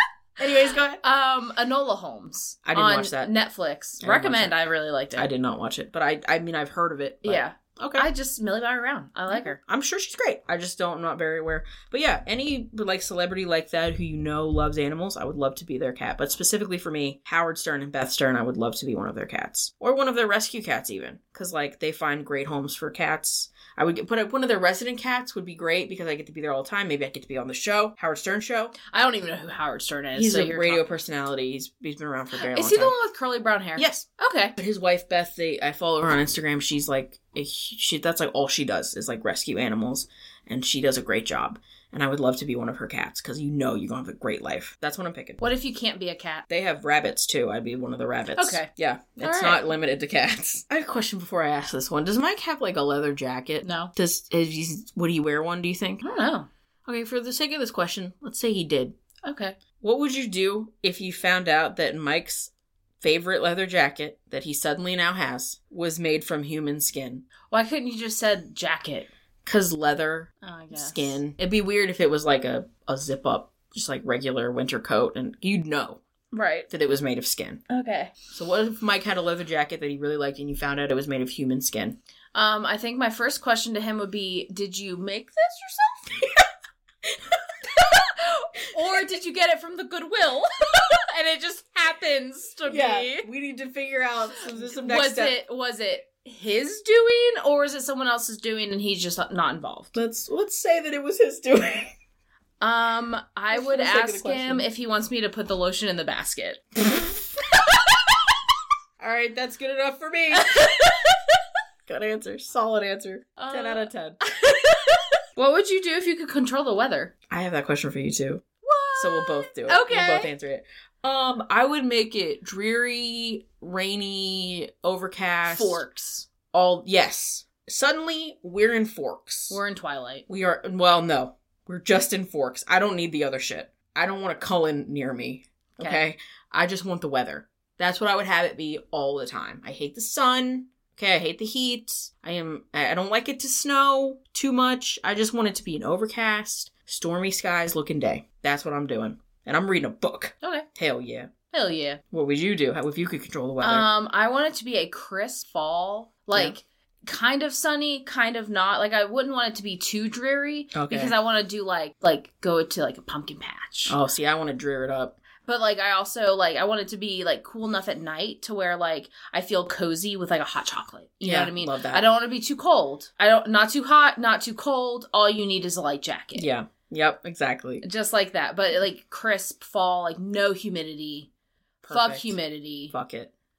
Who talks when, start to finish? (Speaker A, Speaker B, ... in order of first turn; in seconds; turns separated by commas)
Speaker A: 0.4-1.0, Speaker B: 1.0-5.3, Speaker A: 2.6-3.3, Speaker A: 4.0-4.6, Speaker A: 5.2-8.1, Speaker B: 7.2-9.6, Speaker A: 9.3-28.8, Speaker B: 28.8-30.8, Speaker A: 30.1-32.9, Speaker B: 32.4-34.5, Speaker A: 33.8-34.0, Speaker A: 34.6-45.4, Speaker B: 45.4-46.5, Speaker A: 46.5-56.0, Speaker B: 48.4-48.7, Speaker B: 49.2-49.6, Speaker B: 53.6-53.9, Speaker B: 56.0-56.5, Speaker A: 56.9-59.0, Speaker B: 59.2-59.6, Speaker A: 59.8-67.2, Speaker B: 67.5-69.1, Speaker A: 69.4-76.0, Speaker B: 70.4-71.2, Speaker B: 76.3-76.7, Speaker A: 76.7-77.6, Speaker B: 77.7-78.1, Speaker A: 78.3-82.0, Speaker B: 82.3-86.2, Speaker B: 87.6-93.3, Speaker A: 92.7-95.4, Speaker B: 94.6-100.0, Speaker A: 99.9-101.9, Speaker B: 102.6-106.6, Speaker A: 103.5-104.7, Speaker A: 109.0-110.9, Speaker B: 110.3-111.2, Speaker A: 111.8-114.2, Speaker B: 113.4-117.1, Speaker A: 117.3-118.4, Speaker B: 118.6-120.3, Speaker A: 119.0-125.8, Speaker B: 125.4-126.3, Speaker A: 126.5-129.6, Speaker B: 129.5-130.2, Speaker A: 130.3-151.3, Speaker B: 135.8-136.0, Speaker B: 151.5-152.0, Speaker A: 152.1-153.9, Speaker B: 153.6-164.0, Speaker A: 160.7-161.1, Speaker A: 163.9-165.2, Speaker B: 165.4-176.5, Speaker A: 171.2-172.1, Speaker A: 176.3-177.8, Speaker B: 177.8-181.3, Speaker A: 181.8-182.4, Speaker B: 181.9-182.9, Speaker A: 182.9-183.3